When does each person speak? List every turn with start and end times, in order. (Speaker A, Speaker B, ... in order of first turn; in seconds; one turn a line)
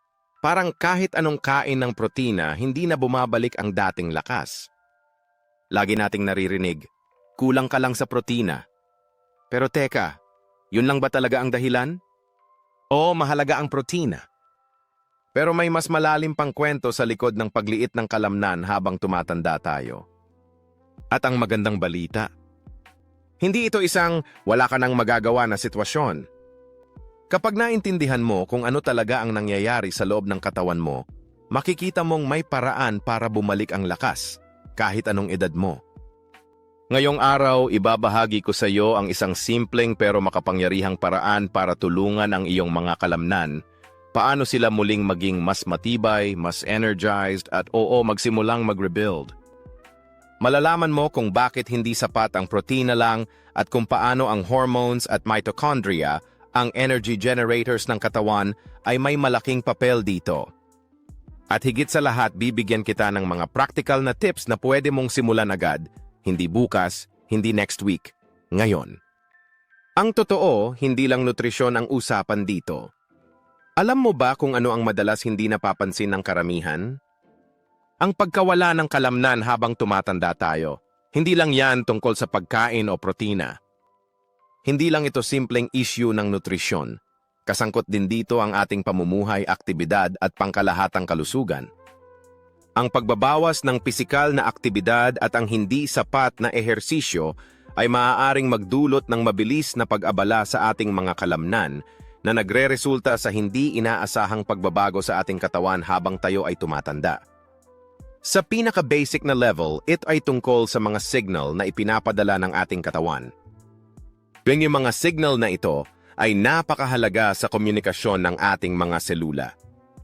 Speaker A: 0.4-4.7
Speaker A: 5.7-6.8
Speaker A: 7.4-8.6
Speaker A: 9.5-10.2
Speaker A: 10.7-12.0
Speaker A: 12.9-14.2
Speaker A: 15.3-20.0
Speaker A: 21.1-22.3
Speaker A: 23.4-26.3
Speaker A: 27.3-35.8
Speaker A: 36.9-43.6
Speaker A: 44.1-49.3
Speaker A: 50.4-60.5
Speaker A: 61.5-69.0
Speaker A: 70.0-72.9
Speaker A: 73.8-77.0
Speaker A: 78.0-83.5
Speaker A: 84.6-91.7
Speaker A: 92.8-107.2
Speaker A: 108.2-113.3
Speaker A: 114.5-119.5